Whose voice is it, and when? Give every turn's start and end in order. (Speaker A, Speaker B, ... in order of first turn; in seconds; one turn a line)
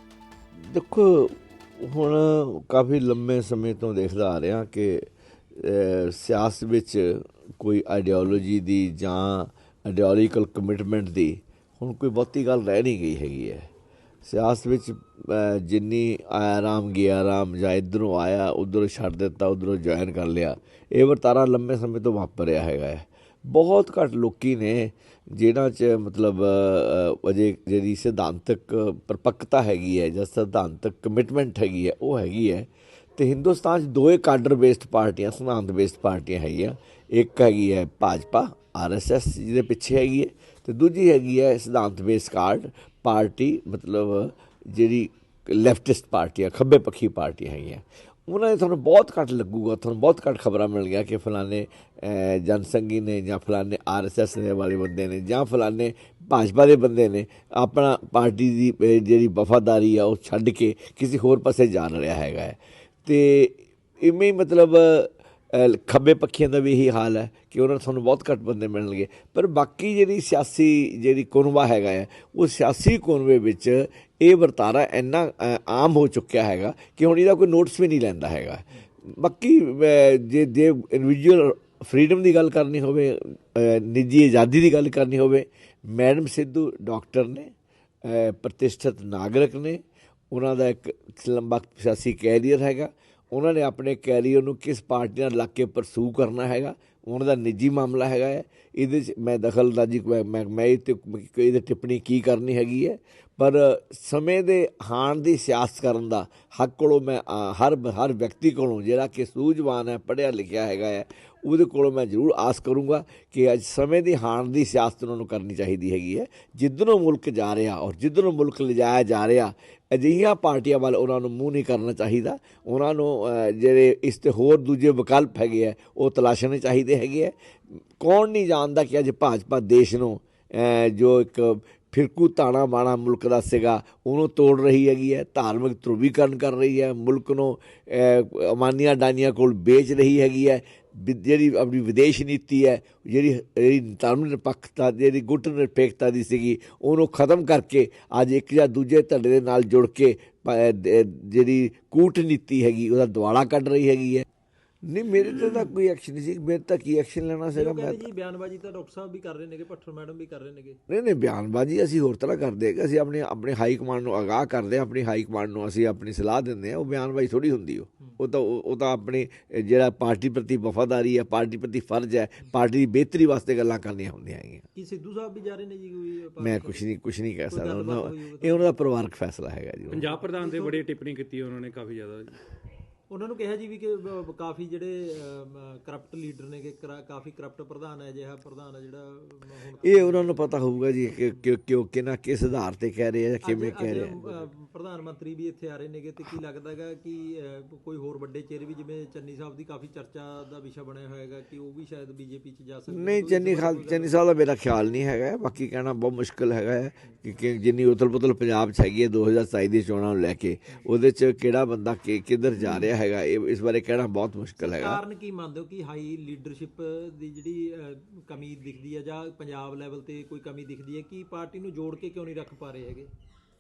Speaker A: 0.7-13.7
Speaker A: 14.2-87.5
Speaker A: 88.0-127.3
Speaker A: 128.0-154.2
Speaker A: 154.8-158.1
Speaker B: 157.5-160.8
Speaker A: 160.9-174.7
Speaker B: 174.8-176.8
Speaker A: 176.4-180.1
Speaker B: 177.5-178.7
Speaker C: 179.9-182.4
Speaker B: 179.9-180.8
Speaker B: 183.1-190.5
Speaker A: 189.8-194.3
Speaker B: 191.2-191.4
Speaker B: 193.4-204.2
Speaker A: 202.9-215.0
Speaker B: 214.6-223.1